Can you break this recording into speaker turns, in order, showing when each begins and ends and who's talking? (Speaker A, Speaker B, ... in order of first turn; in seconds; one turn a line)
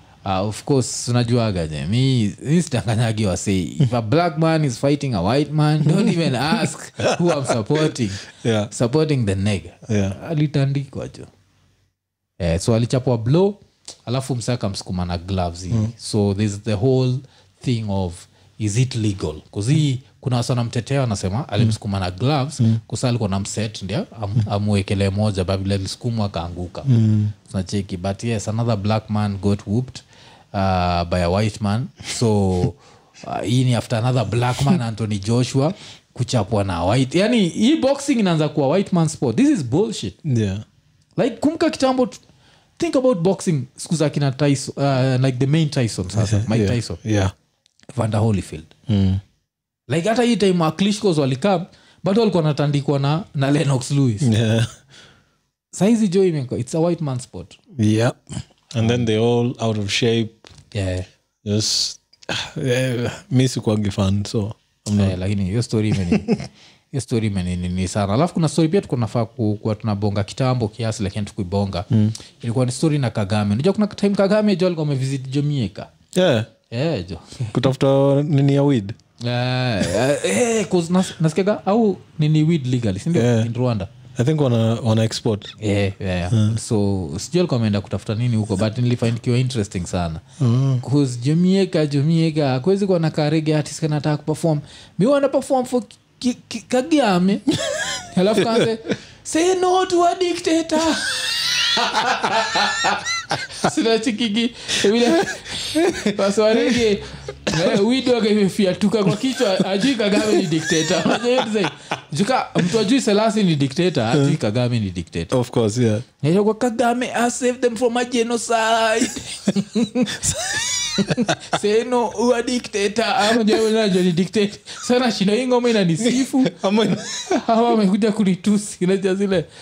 Speaker A: 0.2-11.3
Speaker B: 5.9-8.7
Speaker B: 9.9-10.2
Speaker A: 12.4-26.9
Speaker B: 26.9-27.3
Speaker A: 27.4-40.2
Speaker B: 40.2-40.6
Speaker A: 41.2-42.2
Speaker A: 42.8-47.0
Speaker B: 46.2-47.3
Speaker A: 48.0-48.7
Speaker B: 48.9-49.2
Speaker A: 49.9-54.3
Speaker B: 54.2-54.7
Speaker A: 55.7-57.6
Speaker B: 57.8-58.2
Speaker B: 58.7-60.5
Speaker A: 60.7-61.1
Speaker B: 61.4-65.2
Speaker A: 64.9-66.4
Speaker B: 66.0-66.4
Speaker A: 66.9-71.9
Speaker A: 72.4-75.9
Speaker B: 76.1-76.5
Speaker A: 76.7-77.5
Speaker B: 77.5-79.0
Speaker A: 79.2-83.9
Speaker B: 83.1-83.5
Speaker B: 84.2-85.5
Speaker A: 85.6-90.2
Speaker B: 90.4-90.8
Speaker A: 90.8-115.3
Speaker B: 105.2-106.9
Speaker B: 107.5-107.8
Speaker B: 110.2-111.5
Speaker B: 115.3-116.0
Speaker A: 116.2-126.5
Speaker B: 120.2-121.4
Speaker B: 123.3-123.7
Speaker B: 126.0-127.3
Speaker A: 127.3-129.5